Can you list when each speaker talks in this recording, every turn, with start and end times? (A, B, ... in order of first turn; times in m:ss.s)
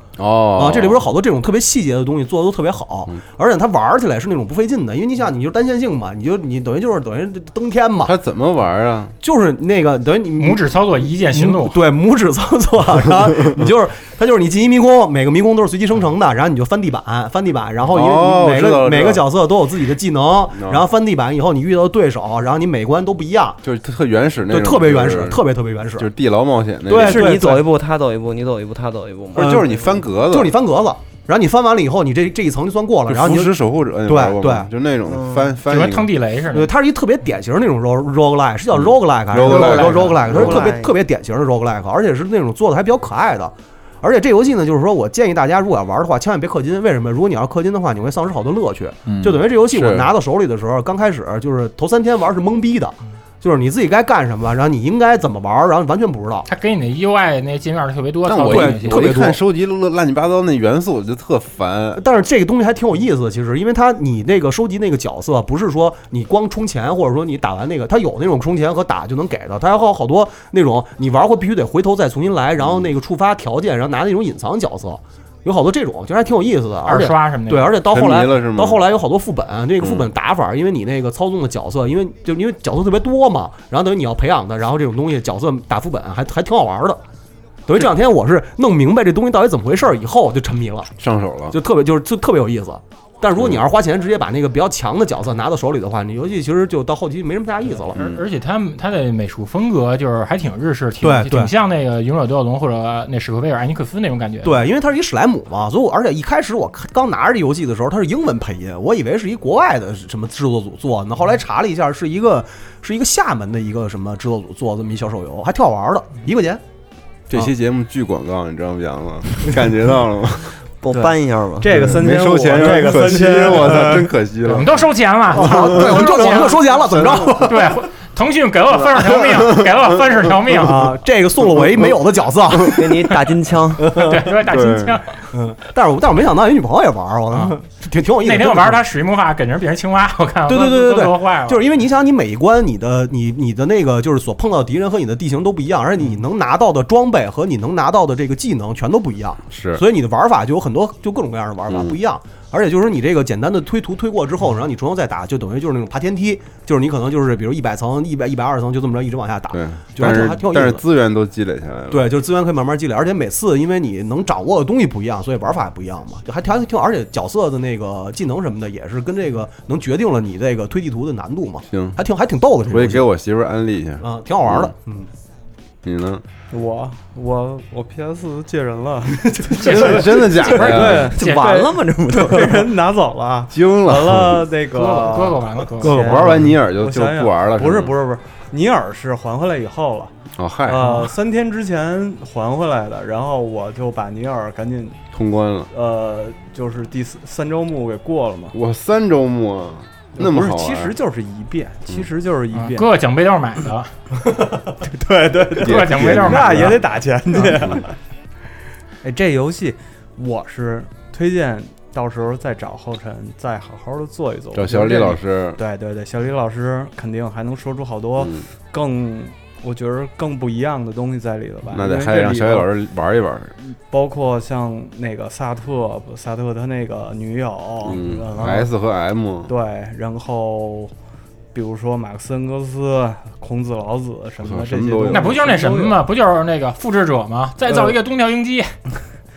0:00.2-0:01.1 A
0:00.5-0:08.1 B
0:08.0-0:09.1 A
0:09.2-0:23.6 B
0:10.4-0:11.8 C
0:17.9-0:19.2 A
0:20.5-0:20.8 A
0:23.6-0:25.4 A
0:24.5-0:26.1 B
0:26.0-0:27.4 A
0:26.8-0:27.6 B
0:26.9-0:30.0 D
0:29.3-0:30.5 A
0:29.3-0:34.7 B
0:33.1-0:36.1 A
0:35.0-0:35.6 D
0:35.6-0:36.7 C
0:36.5-0:56.4 B
0:38.7-0:40.7 A
0:39.4-0:40.1 C
0:39.5-0:41.0 D
0:49.1-0:50.1 A
0:56.5-0:59.2 C
0:58.3-1:02.0 A
0:58.4-0:59.4 B
1:01.9-1:27.0 B
1:12.6-1:12.9 A
1:16.8-1:17.8 C
1:17.9-1:18.8 A
1:19.8-1:20.1 A
1:27.7-1:30.9 B
1:31.0-1:31.6 A
1:31.5-1:38.0 B
1:33.4-1:33.6 A
1:37.9-1:44.6 C
1:37.9-1:38.2 A
1:41.0-1:41.5 B
1:44.4-1:56.6 B
1:57.3-2:00.6 A
2:00.8-2:01.7 D
2:00.9-2:04.1 E
2:01.7-2:06.0 A
2:04.4-2:06.8 C
2:05.3-2:07.7 B
2:07.3-2:10.9 C
2:09.0-2:09.5 A
2:10.6-2:13.2 B
2:12.6-2:13.9 D
2:13.8-2:14.3 B
2:13.9-2:15.2 C
2:14.4-2:15.0 A
2:15.3-2:18.8 B
2:18.2-2:21.6 C
2:20.5-2:40.8 B
2:29.5-2:29.8 A
2:31.7-2:32.0 A
2:39.5-2:42.1 A
2:41.9-2:53.1 B
2:51.7-2:52.0 A
2:52.7-2:54.7 A
2:54.0-2:55.1 B
2:55.8-2:56.2 A
2:56.5-3:10.1 E
2:59.5-3:01.7 C
2:59.6-3:01.1 A
3:00.9-3:02.7 D
3:03.5-3:04.5 A
3:04.7-3:06.3 C
3:05.8-3:08.0 A
3:06.0-3:06.4 B
3:10.4-3:11.0 A
3:10.6-3:15.0 E
3:15.1-3:15.7 A
3:15.7-3:18.5 E
3:18.5-3:20.9 A
3:20.1-3:22.9 E
3:22.5-3:23.9 C
3:24.3-3:27.9 E
3:25.5-3:27.8 A
3:25.6-3:26.8 C
3:29.0-3:42.7 E
3:34.5-3:35.6 A
3:38.2-3:38.4 A
3:41.7-3:43.5 A
3:43.6-3:48.7 E
3:47.8-3:49.5 A
3:49.5-3:50.9 E
3:51.5-3:56.0 E
3:54.4-3:55.3 A
3:55.1-3:58.7 C
3:57.7-3:57.9 E